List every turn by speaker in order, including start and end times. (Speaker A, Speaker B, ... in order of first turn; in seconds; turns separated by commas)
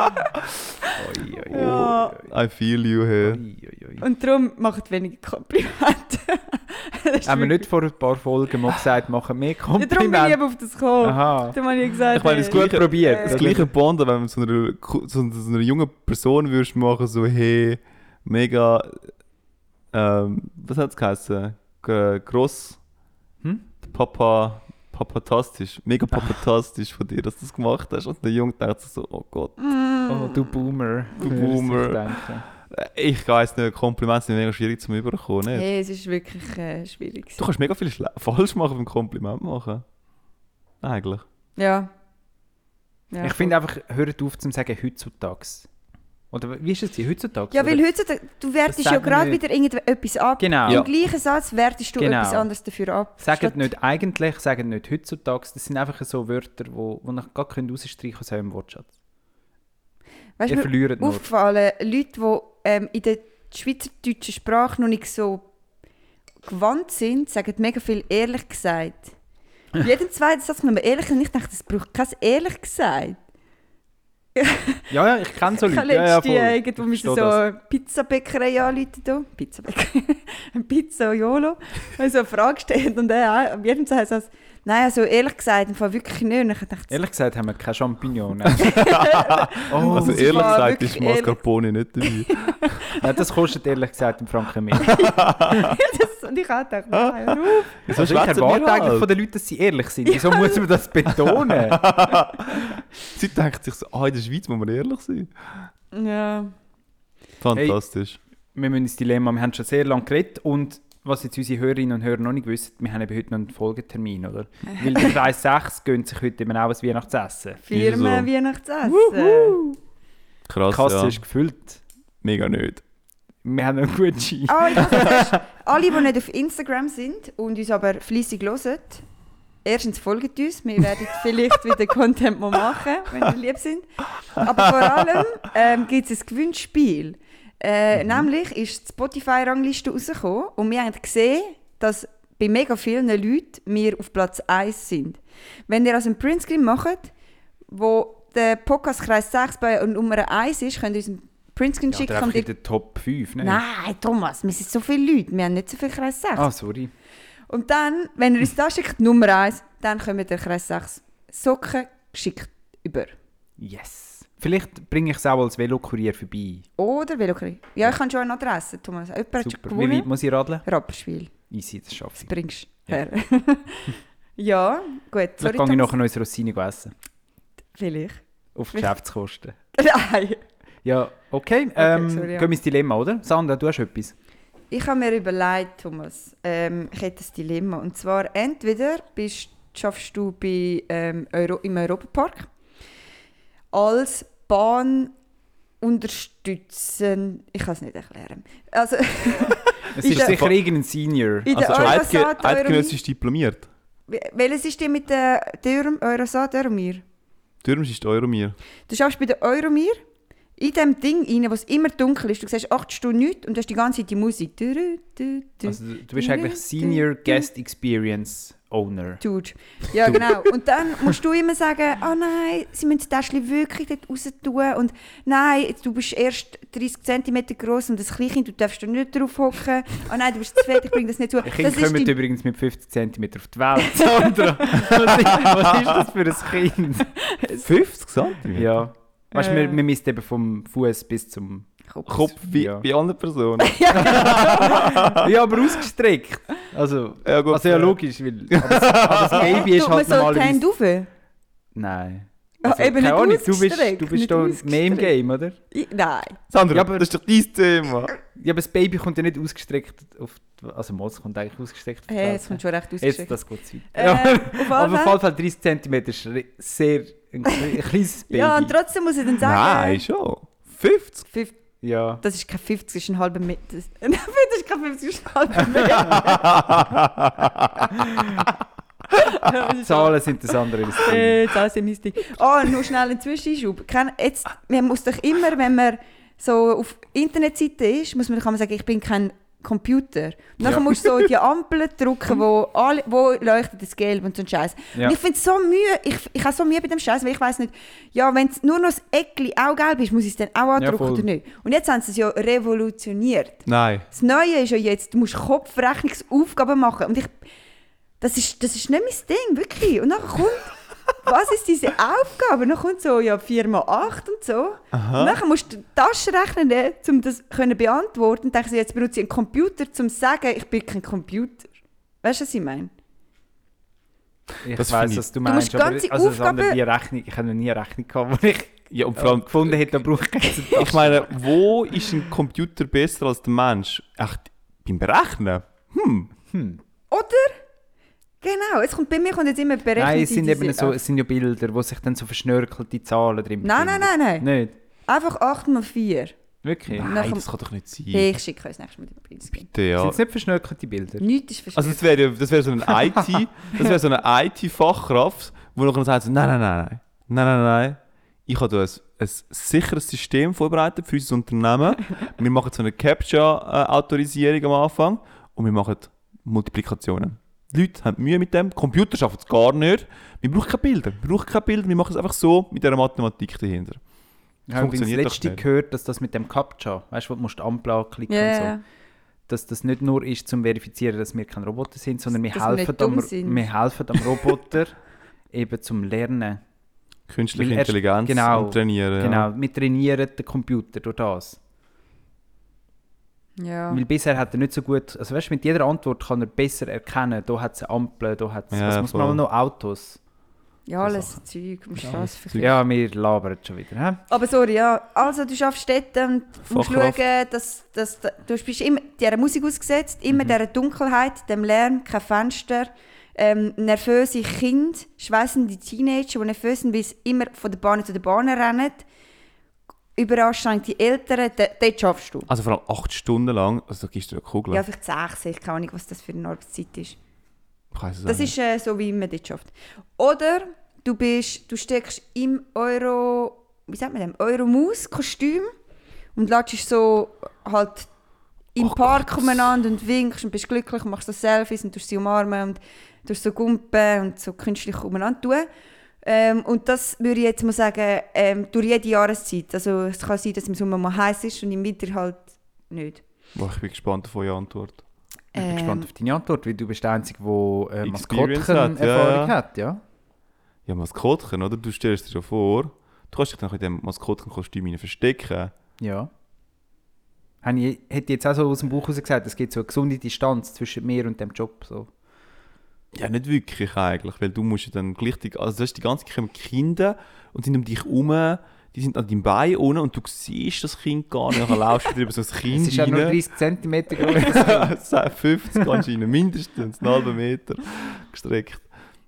Speaker A: 0.9-2.3, Speaker B: 1.5-2.2, Speaker C: 1.5-3.4, Speaker A: 3.2-4.0, Speaker B: 4.0-7.7, Speaker A: 7.3-10.4, Speaker B: 9.8-13.4, Speaker A: 11.0-11.6, Speaker C: 12.1-19.0, Speaker A: 12.4-13.7, Speaker C: 19.9-22.8, Speaker C: 23.8-29.5, Speaker B: 29.6-30.5, Speaker A: 30.1-32.5, Speaker C: 31.2-32.1, Speaker C: 32.7-35.7, Speaker B: 35.5-37.4, Speaker C: 37.4-39.9, Speaker C: 40.8-41.2, Speaker B: 41.6-41.9, Speaker B: 43.1-43.5, Speaker A: 43.2-45.7, Speaker A: 46.3-47.8, Speaker B: 47.5-53.7, Speaker A: 48.7-49.4, Speaker A: 50.4-50.9, Speaker A: 52.0-52.5, Speaker A: 53.2-58.9, Speaker B: 60.4-65.5, Speaker A: 60.5-61.2, Speaker B: 66.4-69.1, Speaker B: 69.8-73.2, Speaker B: 74.4-74.9, Speaker A: 74.9-77.4, Speaker B: 75.5-87.0, Speaker A: 86.9-88.7, Speaker B: 88.6-91.4, Speaker C: 88.6-92.3, Speaker A: 89.7-90.6, Speaker B: 92.0-93.0, Speaker A: 93.0-95.0, Speaker B: 94.8-97.7, Speaker C: 95.0-95.7, Speaker C: 97.0-99.1, Speaker A: 97.9-101.9, Speaker B: 100.1-100.6, Speaker C: 101.3-105.3, Speaker B: 105.9-106.5, Speaker C: 107.4-108.2, Speaker A: 107.5-107.8, Speaker A: 108.5-117.6, Speaker B: 117.7-119.6, Speaker C: 117.7-118.3, Speaker A: 118.9-119.7, Speaker C: 120.5-121.2, Speaker A: 120.7-121.8, Speaker C: 122.2-122.8, Speaker A: 123.4-125.4, Speaker B: 124.5-129.0, Speaker B: 129.6-147.1, Speaker B: 147.7-152.5, Speaker A: 151.9-153.6, Speaker B: 153.4-156.5, Speaker A: 156.4-156.9, Speaker B: 157.5-163.1, Speaker A: 163.6-166.7, Speaker B: 166.8-170.1, Speaker A: 169.4-170.7, Speaker B: 170.6-171.3, Speaker A: 171.5-172.3, Speaker B: 172.2-175.9, Speaker A: 175.4-176.9, Speaker B: 177.8-178.2, Speaker A: 178.6-179.6, Speaker B: 179.7-180.4, Speaker A: 180.8-184.1, Speaker B: 181.8-182.5, Speaker B: 184.7-192.5, Speaker B: 193.7-195.1, Speaker B: 195.8-200.4, Speaker A: 199.9-202.0, Speaker C: 200.1-200.6, Speaker B: 201.4-203.0, Speaker C: 201.5-203.7, Speaker B: 204.1-207.0, Speaker C: 207.6-208.6, Speaker B: 208.9-210.0, Speaker B: 210.6-217.4, Speaker A: 215.7-219.2, Speaker B: 219.2-232.2, Speaker A: 231.4-237.1, Speaker B: 233.9-235.4, Speaker B: 237.2-237.7, Speaker C: 237.6-238.8, Speaker A: 238.5-242.8, Speaker B: 239.3-239.8, Speaker C: 242.1-245.3, Speaker B: 243.6-245.2, Speaker A: 244.1-250.6, Speaker C: 247.2-247.9, Speaker C: 248.5-249.5, Speaker B: 249.3-251.1, Speaker A: 251.8-255.6, Speaker B: 252.6-255.1, Speaker B: 255.7-256.4, Speaker C: 256.5-258.1, Speaker A: 256.7-257.1, Speaker A: 258.3-268.7, Speaker B: 262.1-263.4, Speaker B: 263.9-265.2, Speaker B: 268.3-270.0, Speaker C: 269.4-271.2, Speaker B: 271.3-271.6, Speaker A: 271.8-272.2, Speaker B: 272.2-276.6, Speaker C: 276.1-277.9, Speaker B: 279.2-280.2, Speaker A: 279.8-281.5, Speaker B: 281.0-307.4, Speaker A: 300.8-301.3, Speaker C: 303.7-304.1, Speaker B: 308.2-321.7, Speaker C: 314.9-315.4, Speaker B: 322.2-322.9, Speaker A: 324.6-331.4, Speaker C: 324.8-325.2, Speaker B: 325.4-326.8, Speaker C: 328.9-330.0, Speaker B: 330.5-330.8, Speaker C: 330.7-336.3, Speaker A: 336.5-336.8, Speaker B: 337.1-337.6, Speaker B: 338.4-341.0, Speaker A: 340.0-344.7, Speaker B: 343.6-344.5, Speaker B: 345.1-346.4, Speaker A: 346.6-347.1, Speaker C: 346.9-348.3, Speaker B: 347.0-347.5, Speaker B: 348.1-349.7, Speaker C: 349.6-350.2, Speaker A: 350.0-351.3, Speaker B: 351.2-352.0, Speaker C: 351.8-374.0, Speaker A: 374.7-378.8, Speaker C: 374.8-375.6, Speaker B: 378.3-378.8, Speaker A: 379.5-385.0, Speaker B: 382.5-383.7, Speaker A: 385.5-386.6, Speaker C: 387.3-389.5, Speaker A: 387.6-391.6, Speaker B: 393.6-394.0, Speaker A: 393.9-400.2, Speaker C: 398.7-399.4, Speaker B: 400.9-402.7, Speaker A: 401.0-401.4, Speaker C: 402.0-402.7, Speaker A: 402.6-404.2, Speaker B: 404.3-419.1, Speaker C: 406.7-407.2, Speaker B: 420.2-422.5, Speaker C: 422.5-424.8, Speaker B: 424.7-427.2, Speaker C: 427.9-428.5, Speaker B: 428.3-435.7, Speaker B: 436.4-438.1, Speaker B: 438.8-445.7, Speaker C: 438.8-439.6, Speaker B: 446.2-453.2, Speaker C: 453.6-455.0, Speaker B: 455.6-456.1, Speaker A: 455.6-460.0, Speaker C: 458.0-459.6, Speaker C: 460.9-465.7, Speaker A: 466.0-466.3, Speaker A: 467.6-472.1, Speaker C: 473.1-483.4, Speaker A: 482.7-484.9, Speaker C: 484.3-488.9